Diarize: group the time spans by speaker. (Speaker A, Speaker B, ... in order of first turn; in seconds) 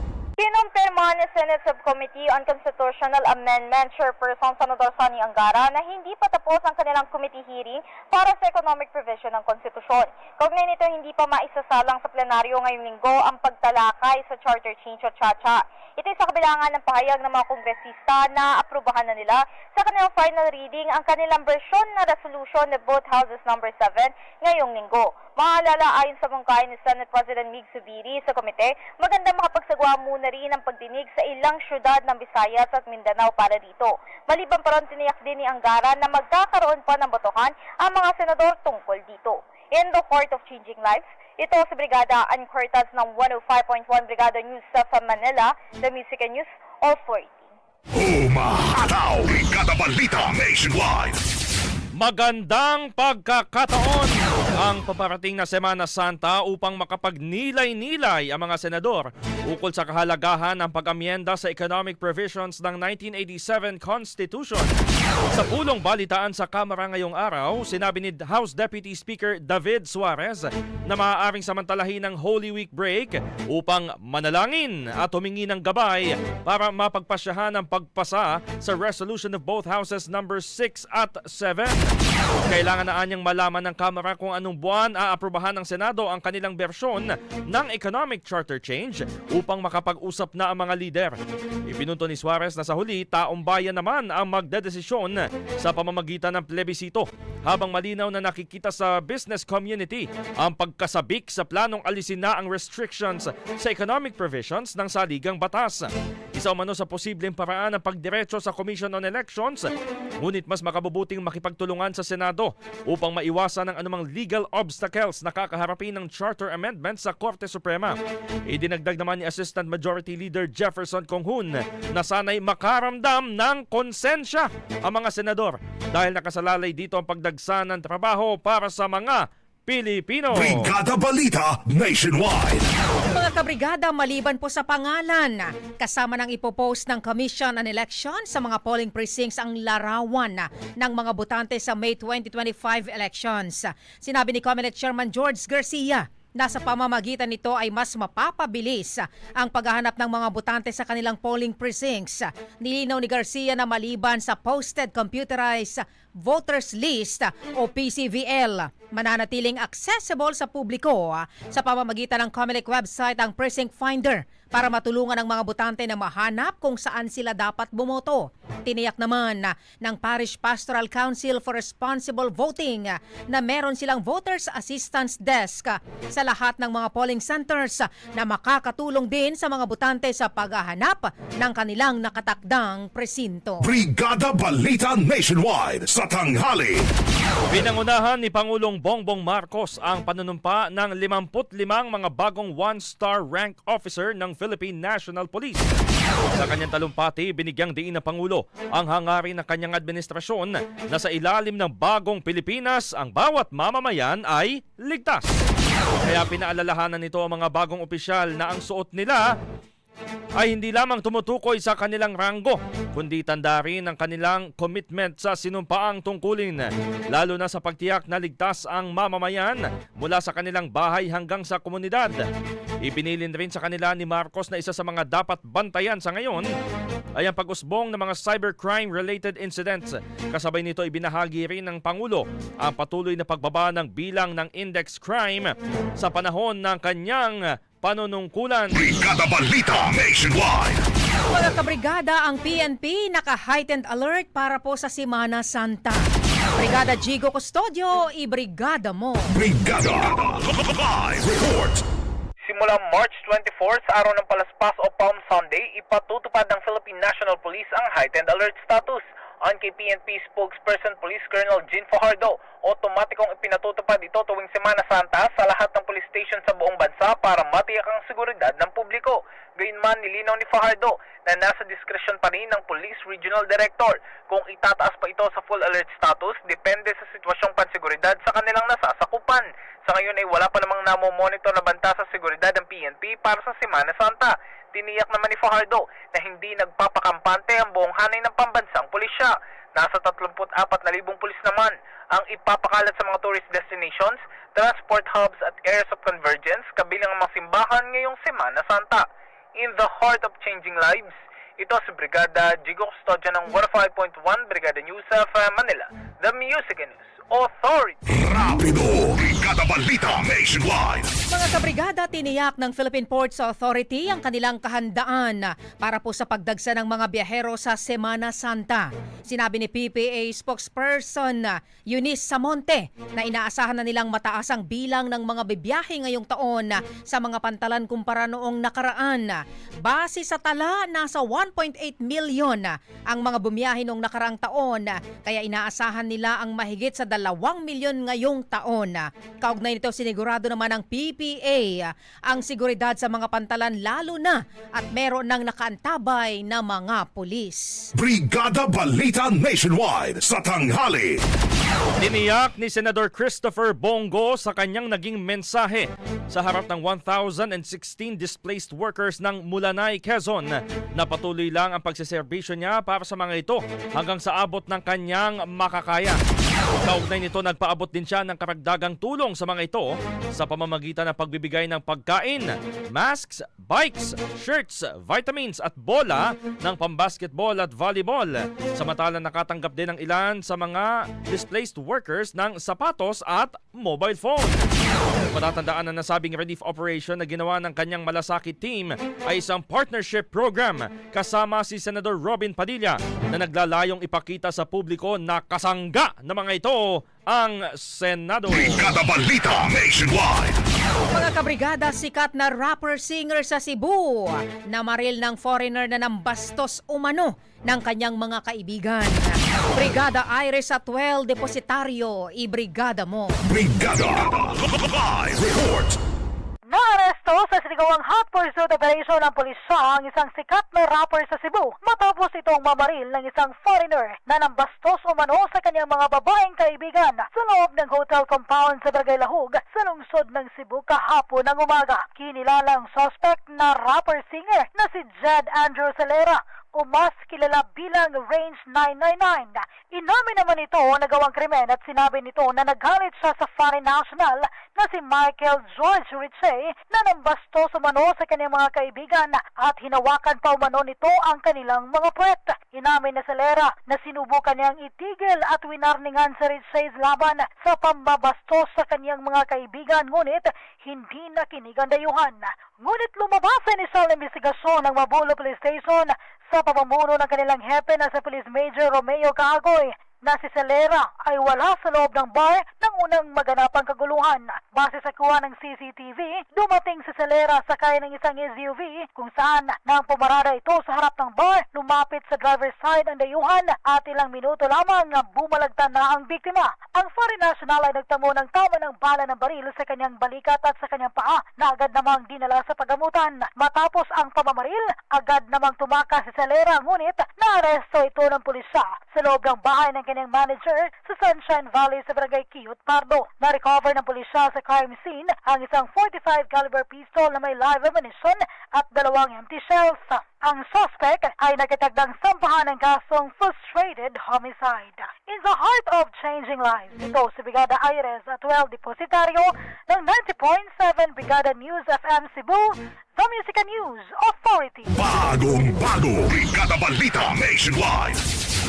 Speaker A: 0.4-47.5
Speaker B: 47.9-51.2, 130.3-132.7, 183.6-186.9, 238.8-240.8, 249.3-251.8, 308.2-311.1, 347.9-351.2, 398.5-400.6, 413.4-416.0, 524.9-528.2
Speaker C: 52.0-64.7, 65.3-81.9, 82.5-109.7, 110.2-118.0, 118.5-130.7, 187.5-195.8, 196.4-205.4, 206.1-209.2, 210.4-222.2, 222.8-226.5, 227.2-238.8, 352.0-366.2, 366.8-384.7, 385.3-398.8
Speaker D: 133.1-183.7, 241.3-249.4, 311.3-347.9, 401.1-413.4
Speaker E: 252.4-308.0
Speaker F: 416.7-525.0